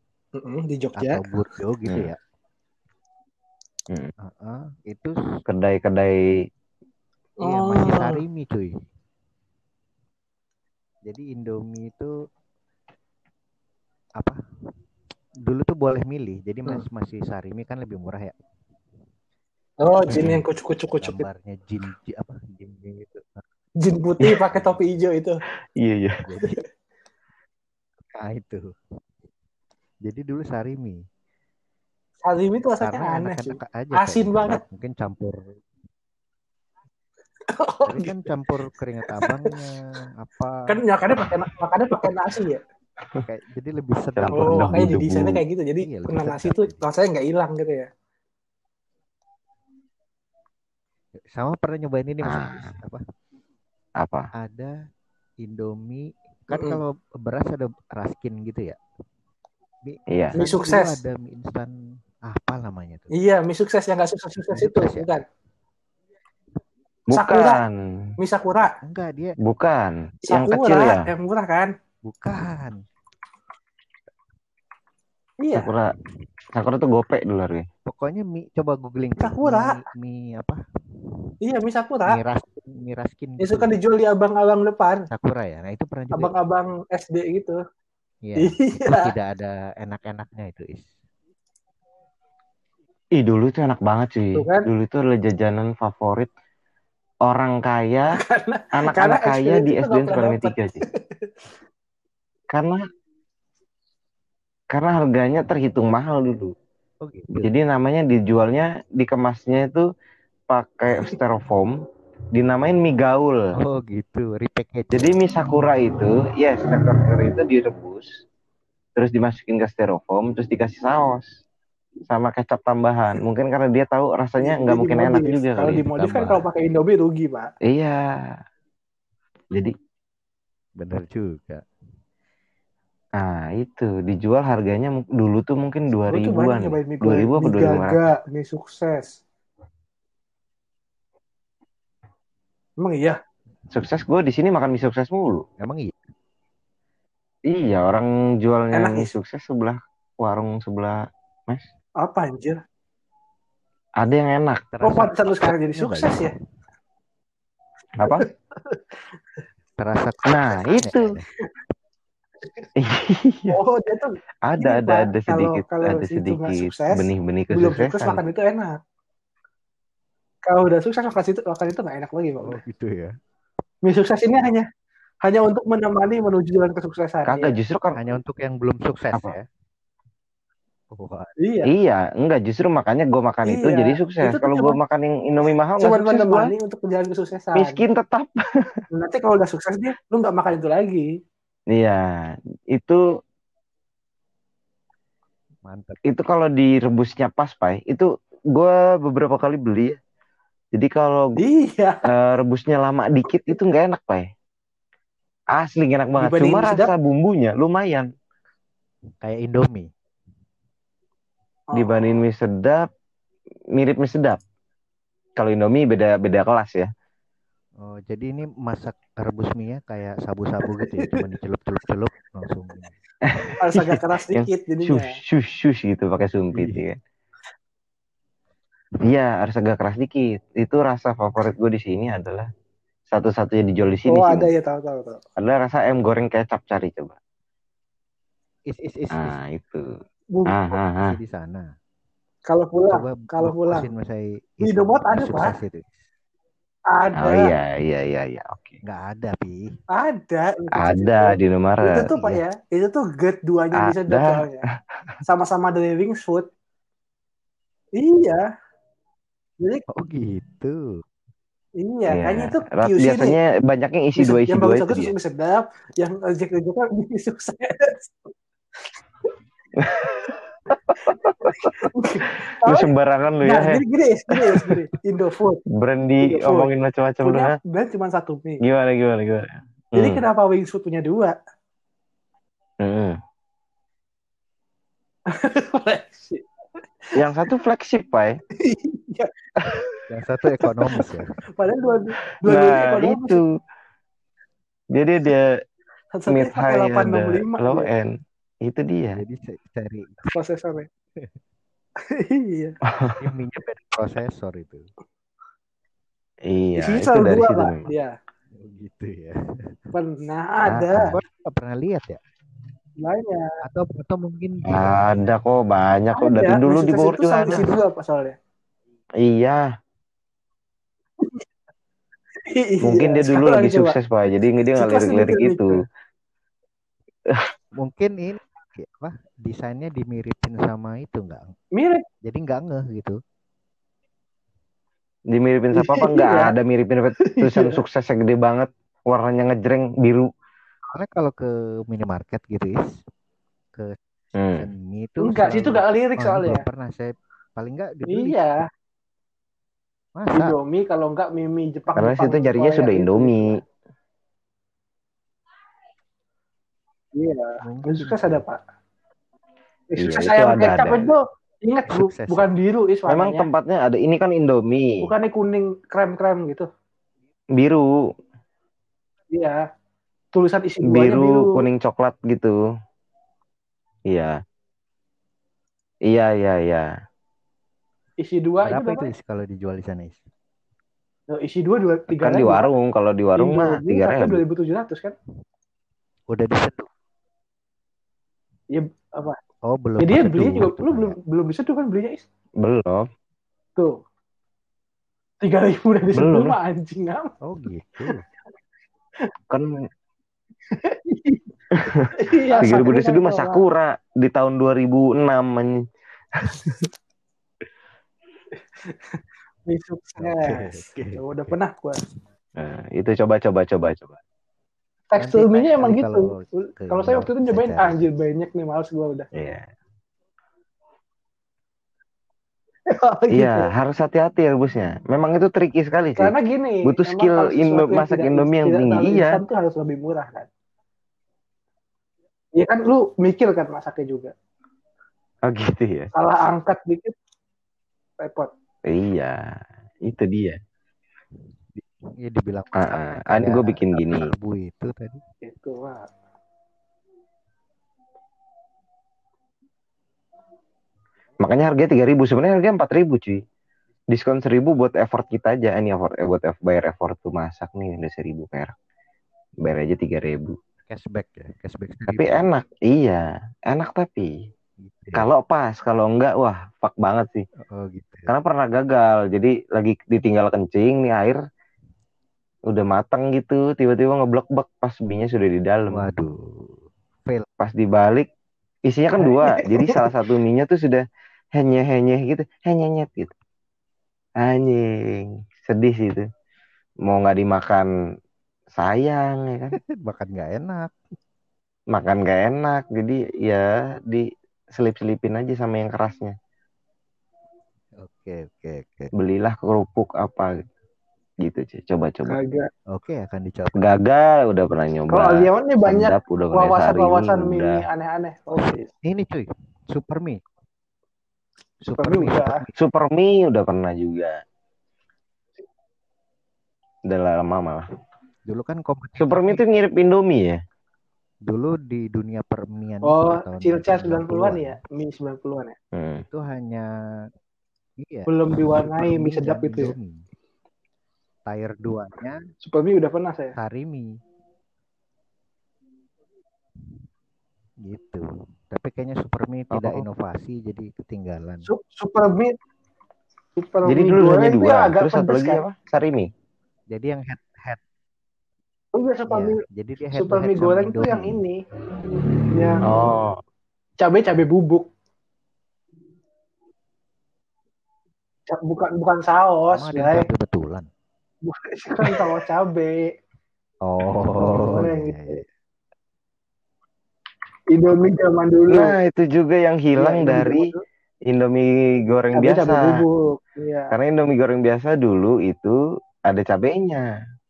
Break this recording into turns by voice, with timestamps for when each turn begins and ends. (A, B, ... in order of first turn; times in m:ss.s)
0:00.4-0:01.2 A
0:01.0-0:02.2 B
0:04.2-0:05.2 B
0:05.5-0:06.4 C
0:07.4-0:08.2 A
0:07.4-0:08.7 B
0:11.0-0:12.1 B
0:15.4-0:18.3 B
0:19.8-0:21.3 A
0:20.1-0:23.4 B
0:23.8-0:25.4 A
0:24.2-0:24.5 C
0:25.8-0:26.2 C
0:26.2-0:26.6 B
0:28.1-0:28.7 B
0:30.0-0:31.0 B
0:32.2-0:34.6 A
0:32.8-0:35.6 B
0:37.5-0:38.1 A
0:37.8-0:40.8 B
0:39.1-0:39.6 A
0:40.7-0:42.6 A
0:43.2-0:45.0 B
0:44.2-0:45.4 C
0:44.3-0:47.9 A
0:45.8-0:46.8 B
0:51.3-0:53.0 B
0:52.2-0:52.7 C
0:54.0-0:54.3 C
0:54.3-0:54.8 B
0:55.4-0:58.8 B
0:56.5-0:56.8 A
0:59.8-1:01.7 B
1:00.1-1:00.4 C
1:00.4-1:01.0 A
1:02.2-1:03.1 B
1:03.1-1:05.2 A
1:04.5-1:05.1 B
1:07.1-1:07.8 C
1:07.1-1:07.6 A
1:08.2-1:08.8 A
1:08.8-1:09.4 B
1:09.4-1:11.1 C
1:10.3-1:11.7 A
1:12.0-1:12.8 B
1:15.4-1:15.7 A
1:15.5-1:15.9 C
1:16.5-1:17.7 C
1:17.9-1:20.6 B
1:19.2-1:19.8 A
1:21.4-1:22.2 A
1:22.0-1:23.8 B
1:23.4-1:25.1 A
1:25.1-1:26.3 B
1:26.1-1:27.6 A
1:28.2-1:30.8 B
1:28.4-1:29.1 A
1:33.2-1:36.3 C
1:34.4-1:34.7 A
1:37.2-1:38.1 C
1:38.1-1:41.3 A
1:38.8-1:40.8 C
1:42.5-1:42.8 C
1:44.7-1:46.5 C
1:47.0-1:47.5 B
1:47.3-1:49.9 C
1:50.5-1:51.8 C
1:52.3-1:53.5 C
1:53.6-1:55.2 B
1:54.9-1:58.2 C
1:59.0-2:01.3 C
2:02.1-2:05.8 C
2:04.4-2:07.5 A
2:05.8-2:06.5 B
2:07.6-2:08.4 C
2:10.8-2:11.6 B
2:13.2-2:18.1 C
2:16.1-2:19.2 A
2:22.8-2:23.2 A
2:23.7-2:25.4 C
2:25.6-2:26.0 B
2:27.5-2:31.7 C
2:28.7-2:29.1 A
2:32.0-2:32.6 A
2:34.0-2:34.6 C
2:34.7-2:36.3 B
2:34.8-2:36.3 A
2:38.0-2:38.3 C
2:38.1-2:38.8 A
2:39.8-2:41.3 B
2:40.3-2:41.1 C
2:42.8-2:43.6 C
2:43.5-2:48.8 A
2:44.4-2:48.2 C
2:50.4-2:52.6 A
2:52.4-2:53.1 B
2:53.8-2:54.7 A
2:55.2-2:57.6 A
2:57.2-2:58.0 C
2:57.9-2:59.4 B
3:00.9-3:01.3 B
3:01.4-3:01.7 A
3:01.6-3:06.5 C
3:03.4-3:04.8 A
3:05.8-3:07.8 A
3:07.5-3:08.7 C
3:08.9-3:11.1 A
3:11.7-3:13.0 C
3:15.6-3:16.0 B
3:16.0-3:20.0 C
3:20.7-3:21.4 C
3:21.4-3:22.0 A
3:22.0-3:24.3 C
3:25.5-3:28.1 C
3:26.2-3:26.9 A
3:29.2-3:29.9 B
3:31.7-3:32.2 A
3:31.7-3:32.9 C
3:33.8-3:34.4 C
3:35.4-3:36.9 C
3:37.8-3:42.9 B
3:40.8-3:41.2 A
3:43.2-3:47.0 C
3:43.6-3:45.0 A
3:46.5-3:46.8 B
3:49.0-3:52.5 C
3:53.1-3:54.5 C
3:54.1-3:55.2 A
3:55.4-3:57.2 C
3:58.7-3:59.4 B
3:59.1-3:59.9 C
4:00.3-4:00.8 A
4:00.5-4:01.2 C
4:01.0-4:01.7 B
4:02.5-4:03.9 A
4:02.9-4:05.9 B
4:04.6-4:05.6 A
4:06.9-4:07.5 A
4:07.2-4:08.8 C
4:08.8-4:09.6 B
4:09.9-4:14.6 A
4:10.8-4:12.1 C
4:12.1-4:12.4 B
4:13.8-4:14.5 C
4:15.2-4:16.5 A
4:18.0-4:18.5 A
4:19.9-4:21.0 B
4:21.8-4:23.4 A
4:22.1-4:25.1 C
4:24.2-4:28.3 A
4:29.8-4:31.7 C
4:31.4-4:32.9 A
4:32.4-4:33.8 C
4:33.4-4:35.6 A
4:34.3-4:34.8 C
4:35.7-4:37.6 C
4:36.2-4:36.7 A
4:37.2-4:38.6 A
4:38.6-4:40.2 C
4:39.9-4:41.4 A
4:42.8-4:43.2 C
4:45.3-4:46.4 A
4:47.1-4:48.4 C
4:48.6-4:49.9 A
4:50.1-4:51.3 B
4:50.6-4:53.4 A
4:52.4-4:53.4 C
4:54.9-4:55.5 C
4:56.1-4:57.9 A
4:56.3-4:59.2 C
4:59.1-5:00.2 B
5:00.3-5:00.9 A
5:02.0-5:02.8 A
5:02.9-5:03.2 C
5:03.2-5:04.9 B
5:06.4-5:07.9 C
5:06.8-5:08.1 A
5:08.6-5:09.8 B
5:09.9-5:11.2 A
5:10.6-5:12.2 B
5:13.0-5:13.5 A
5:13.6-5:15.0 B
5:14.7-5:17.7 C
5:16.2-5:18.4 A
5:17.5-5:17.8 B
5:19.2-5:19.7 C
5:21.2-5:21.4 A
5:22.4-5:24.0 A
5:22.8-5:25.8 C
5:24.7-5:25.7 A
5:27.8-5:31.5 B
5:31.7-5:32.0 A
5:32.2-5:33.2 B
5:35.3-5:40.3 C
5:35.7-5:36.5 A
5:37.2-5:37.8 A
5:40.9-5:42.9 B
5:44.3-5:44.7 C
5:44.5-5:48.4 B
5:45.2-5:46.6 A
5:48.1-5:48.6 A
5:50.2-5:50.6 B
5:50.3-5:53.6 A
5:52.0-5:53.6 C
5:57.1-5:58.6 A
5:57.6-5:58.4 B
5:59.9-6:03.5 A
6:00.0-6:01.1 C
6:01.9-6:02.5 B
6:03.1-6:05.1 C
6:05.0-6:06.7 A
6:07.5-6:07.9 C
6:09.3-6:09.6 A
6:10.3-6:11.6 A
6:10.8-6:12.6 C
6:14.1-6:14.4 C
6:16.0-6:16.9 C
6:18.2-6:19.1 A
6:18.6-6:20.2 B
6:21.3-6:22.7 A
6:22.2-6:24.4 C
6:23.4-6:25.2 A
6:26.3-6:26.9 B
6:28.7-6:29.4 A
6:29.6-6:31.2 B
6:30.0-6:32.2 A
6:32.6-6:33.1 C
6:35.4-6:37.3 A
6:36.1-6:36.6 C
6:37.4-6:38.2 B
6:40.7-6:41.4 A
6:41.7-6:45.8 C
6:42.2-6:43.6 A
6:46.4-6:46.7 C
6:48.8-6:52.0 A
6:50.2-6:51.2 B
6:52.6-6:54.2 C
6:55.1-6:59.3 A
6:55.2-6:58.1 B
6:59.3-6:59.6 C
7:02.9-7:03.7 A
7:03.3-7:09.4 C
7:06.2-7:10.5 A
7:12.5-7:14.3 A
7:15.4-7:16.1 C
7:16.1-7:17.1 A
7:18.2-7:18.5 A
7:18.9-7:20.6 C
7:21.8-7:25.2 B
7:22.7-7:24.3 C
7:25.4-7:26.1 A
7:31.4-7:33.4 C
7:34.1-7:38.7 C
7:39.6-7:40.6 C
7:40.9-7:42.5 B
7:42.1-7:44.3 C
7:44.8-7:45.2 B
7:45.1-7:47.4 C
7:47.7-7:48.3 B
7:48.3-7:51.4 C
7:52.7-7:56.1 C
7:55.9-7:57.5 B
7:57.6-7:58.3 C
7:58.9-8:03.3 C
7:59.3-8:00.0 A
8:04.4-8:06.3 C
8:07.0-8:07.9 C
8:08.7-8:09.8 C
8:09.7-8:10.9 B
8:11.9-8:16.4 C
8:18.0-8:19.1 B
8:19.1-8:20.7 C
8:21.4-8:22.4 C
8:22.3-8:22.7 A
8:22.9-8:24.0 B
8:23.7-8:27.8 C
8:25.1-8:28.9 A
8:28.5-8:30.4 B
8:31.8-8:32.7 B
8:32.0-8:32.6 A
8:32.7-8:34.4 C
8:37.1-8:37.8 C
8:38.5-8:39.6 B
8:39.2-8:40.6 C
8:41.5-8:44.8 B
8:43.0-8:45.8 A
8:45.9-8:46.2 C
8:46.3-8:46.9 B
8:48.0-8:50.2 B
8:48.3-8:49.9 A
8:51.5-8:52.4 B
8:52.6-8:53.6 A
8:53.6-8:54.1 B
8:57.8-9:01.7 B
8:59.7-9:00.0 C
9:01.7-9:02.5 A
9:03.6-9:05.6 A
9:03.8-9:06.3 C
9:06.9-9:07.8 B
9:08.9-9:09.6 A
9:09.3-9:11.4 B
9:10.2-9:11.6 A
9:12.5-9:12.9 A
9:12.8-9:13.4 C
9:14.0-9:14.9 A
9:18.5-9:20.3 A
9:19.7-9:20.9 B
9:21.4-9:23.1 A
9:23.8-9:25.5 B
9:24.4-9:25.3 A
9:27.7-9:28.9 A
9:28.7-9:30.7 C
9:30.0-9:30.8 A
9:31.3-9:33.0 C
9:32.3-9:33.9 A
9:33.9-9:35.8 C
9:36.3-9:37.1 C